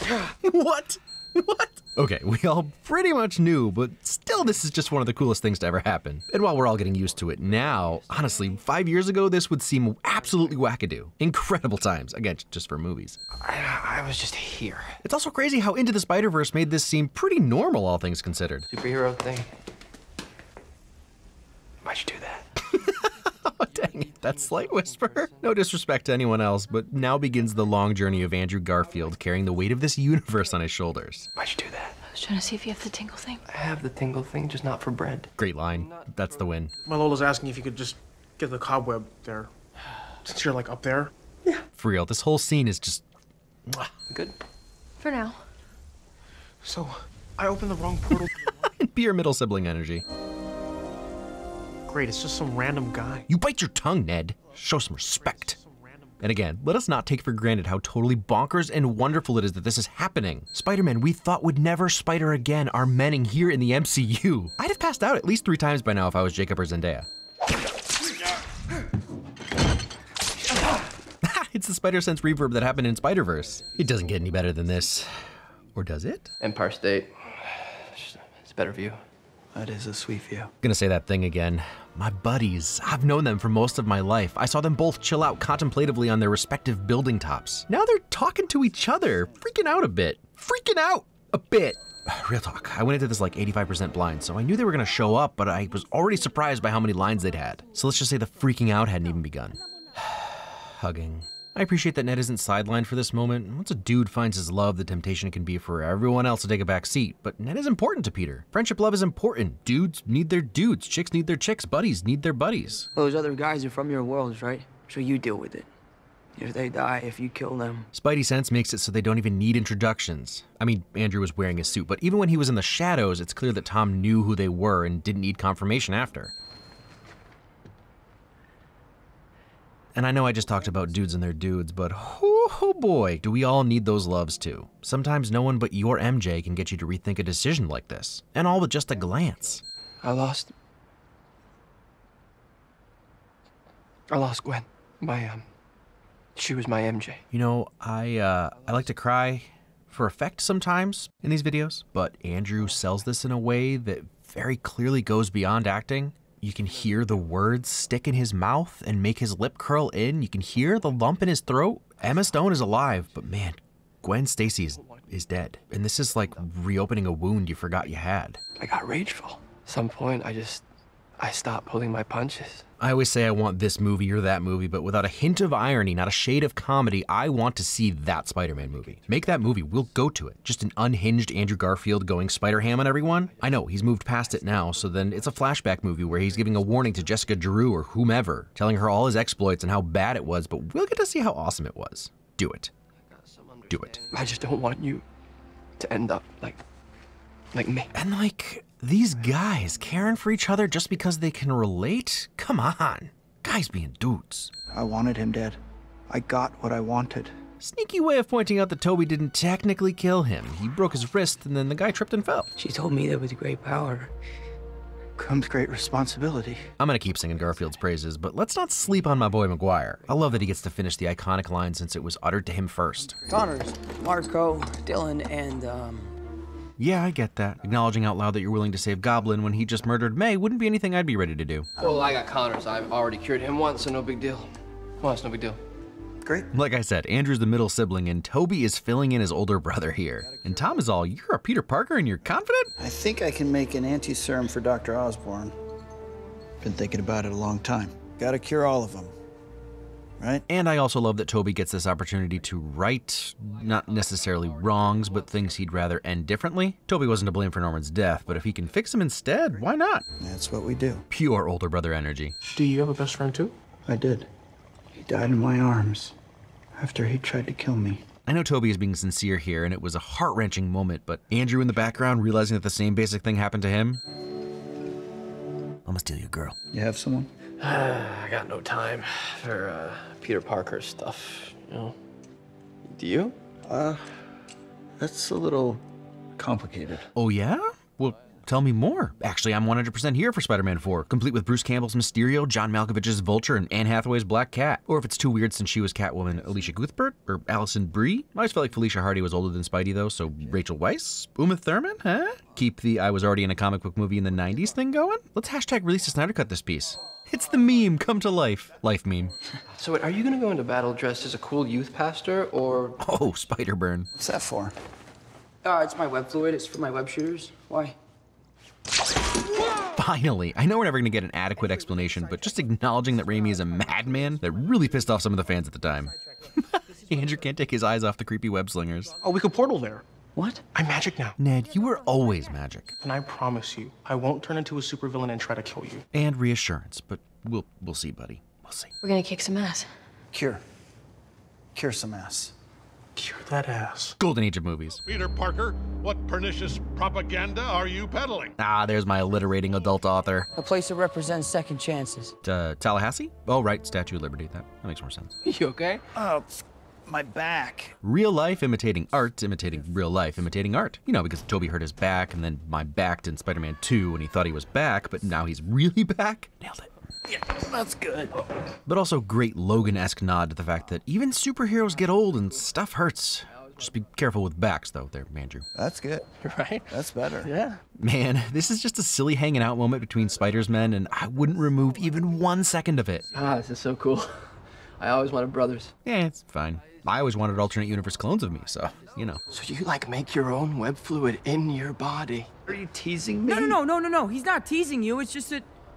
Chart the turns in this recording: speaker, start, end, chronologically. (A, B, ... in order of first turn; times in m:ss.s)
0:00.4-0:13.2 A
0:13.4-0:15.0 B
0:15.0-0:18.7 A
0:18.7-0:19.5 B
0:21.8-0:22.4 B
0:22.6-0:31.3 A
0:31.4-0:32.0 B
0:32.1-0:33.4 C
0:33.5-0:35.3 B
0:35.4-0:36.7 A
0:36.8-0:39.5 D
0:40.2-0:41.1 D
0:41.7-0:43.0 A
0:44.1-0:44.4 B
0:45.0-0:45.4 C
0:46.6-0:48.3 D
0:48.6-0:50.0 A
0:51.9-0:53.3 D
0:53.3-0:55.6 A
0:56.2-1:07.1 A
1:11.2-1:15.1 A
1:15.7-1:16.3 A
1:16.4-1:19.0 B
1:19.5-1:20.5 E
1:20.6-1:52.9 A
1:53.0-1:55.7 F
1:56.4-1:57.9 F
1:57.9-2:06.3 A
2:10.0-2:19.6 A
2:20.0-2:20.5 B
2:24.1-2:25.5 B
2:26.4-2:27.2 B
2:27.3-2:48.4 A
2:44.8-2:45.0 B
2:48.6-2:50.6 B
2:51.2-2:52.6 B
2:52.8-3:12.7 A
3:13.2-3:15.0 B
3:13.7-3:14.0 A
3:15.8-3:16.6 B
3:17.5-3:17.9 B
3:17.9-3:24.5 A
3:24.7-3:27.4 E
3:27.6-3:32.5 A
3:32.6-3:34.1 F
3:35.2-3:36.7 E
3:36.8-3:43.2 A
3:43.3-3:46.1 F
3:46.8-3:51.7 A
3:51.8-3:55.6 B
3:56.2-3:56.5 E
3:56.5-4:02.7 A
4:02.8-4:05.6 E
4:06.6-4:09.1 E
4:10.2-4:10.4 E
4:10.5-4:20.0 A
4:20.2-4:21.0 E
4:21.1-4:22.4 A
4:22.6-4:23.5 D
4:23.9-4:24.3 E
4:25.0-4:26.2 E
4:26.8-4:28.0 E
4:28.3-4:34.0 A
4:35.9-4:36.6 A
4:36.7-4:37.3 E
4:37.6-4:42.0 B
4:42.9-4:43.4 B
4:43.6-4:44.0 E
4:45.0-4:45.8 E
4:46.4-4:47.1 E
4:47.2-5:09.3 A
5:09.8-5:13.0 B
5:13.0-5:14.1 A
5:14.2-5:14.7 E
5:15.6-5:18.0 F
5:19.9-5:29.1 A
5:29.2-5:30.0 D
5:30.7-5:31.4 D
5:31.4-5:32.9 A
5:33.0-5:36.0 D
5:36.1-5:38.9 A
5:39.0-5:39.9 C
5:40.3-5:40.6 E
5:41.8-5:42.5 E
5:43.2-5:44.2 D
5:44.2-5:45.0 A
5:45.0-5:48.5 G
5:48.6-5:50.5 A
5:50.5-5:52.4 F
5:52.4-5:55.4 A
5:55.5-5:56.0 F
5:56.1-5:58.0 E
5:58.0-6:06.9 A
6:07.3-6:08.4 E
6:08.9-6:15.6 A
6:15.8-6:16.3 E
6:16.4-6:16.9 B
6:16.9-6:17.5 E
6:17.4-6:17.8 B
6:18.0-6:23.3 A
6:23.3-6:24.4 B
6:25.0-6:25.9 B
6:26.0-6:29.4 A
6:29.5-6:32.5 B
6:32.7-6:33.8 E
6:33.5-6:35.7 F